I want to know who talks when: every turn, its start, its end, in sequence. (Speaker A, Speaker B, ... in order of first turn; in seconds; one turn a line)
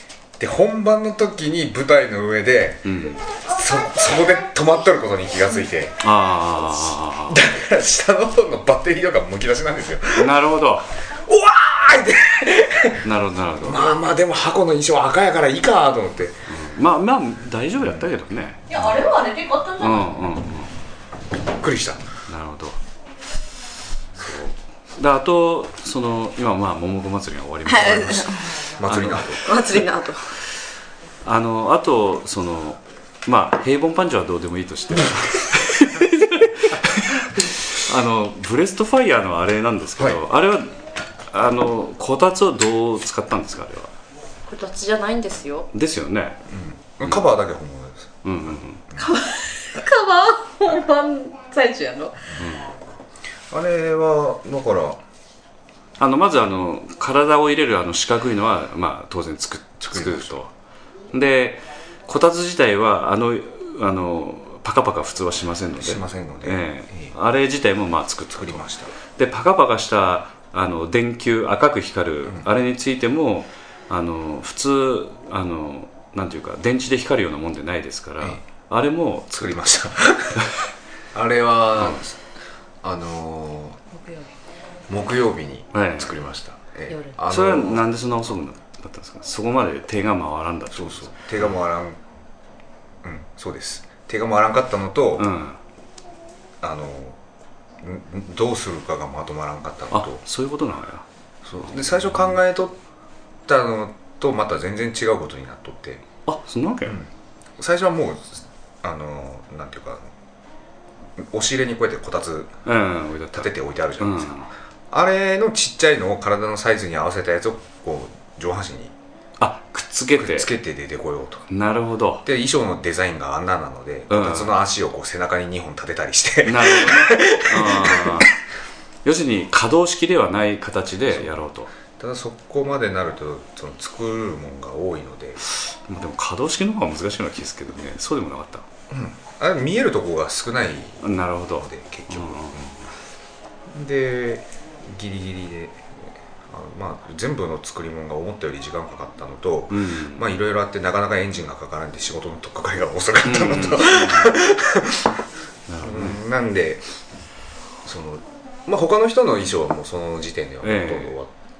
Speaker A: 0.4-6.0
Speaker B: 2.8-3.2
Speaker B: 6.0-7.4
Speaker A: 7.3-10.3
Speaker B: 10.2-10.9
Speaker A: 11.1-13.1
Speaker B: 13.0-14.1
Speaker A: 13.6-16.4
Speaker B: 16.5-19.1
Speaker A: 17.8-18.1
Speaker C: 18.7-20.1
Speaker B: 19.8-20.7
Speaker A: 21.5-22.1
Speaker B: 22.3-22.8
Speaker B: 24.2-29.8
Speaker C: 27.7-28.7
Speaker A: 28.8-29.5
Speaker C: 29.4-30.2
Speaker B: 31.2-40.7
Speaker B: 41.3-43.9
Speaker C: 44.5-45.7
Speaker B: 45.7-46.4
Speaker A: 46.5-49.1
Speaker B: 47.0-47.4
Speaker B: 48.2-48.8
Speaker C: 49.0-52.2
Speaker B: 52.4-52.8
Speaker A: 53.5-55.0
Speaker B: 56.0-60.5
Speaker A: 59.9-60.4
Speaker B: 61.1-79.6
Speaker A: 65.8-67.2
Speaker A: 68.3-69.0
Speaker A: 78.2-78.5
Speaker A: 79.4-80.5
Speaker A: 81.1-82.2
Speaker A: 82.8-83.8
Speaker C: 83.9-84.3
Speaker A: 84.9-87.9
Speaker B: 85.7-86.3
Speaker C: 86.9-87.2
Speaker B: 87.3-91.5
Speaker A: 90.7-92.0
Speaker A: 93.0-95.3
Speaker B: 95.2-95.6
Speaker A: 96.6-97.2
Speaker A: 97.8-100.2
Speaker B: 99.9-101.0
Speaker A: 101.5-102.8
Speaker B: 101.7-102.4
Speaker A: 103.5-106.0
Speaker B: 106.3-107.0
Speaker A: 106.8-110.1
Speaker A: 111.2-112.5
Speaker B: 112.7-114.5
Speaker A: 113.3-118.9
Speaker B: 119.4-120.5
Speaker A: 120.2-121.5
Speaker B: 121.5-122.2
Speaker A: 122.2-128.3
Speaker B: 124.1-124.6
Speaker B: 126.4-128.3
Speaker B: 129.0-131.7
Speaker A: 131.1-135.4
Speaker B: 135.4-138.7
Speaker A: 138.9-142.8
Speaker B: 141.0-142.8
Speaker A: 143.7-145.9
Speaker A: 146.5-155.2
Speaker B: 149.7-150.4
Speaker B: 153.2-154.5
Speaker B: 155.7-156.2
Speaker A: 155.8-156.8
Speaker A: 157.8-161.3
Speaker B: 160.6-161.2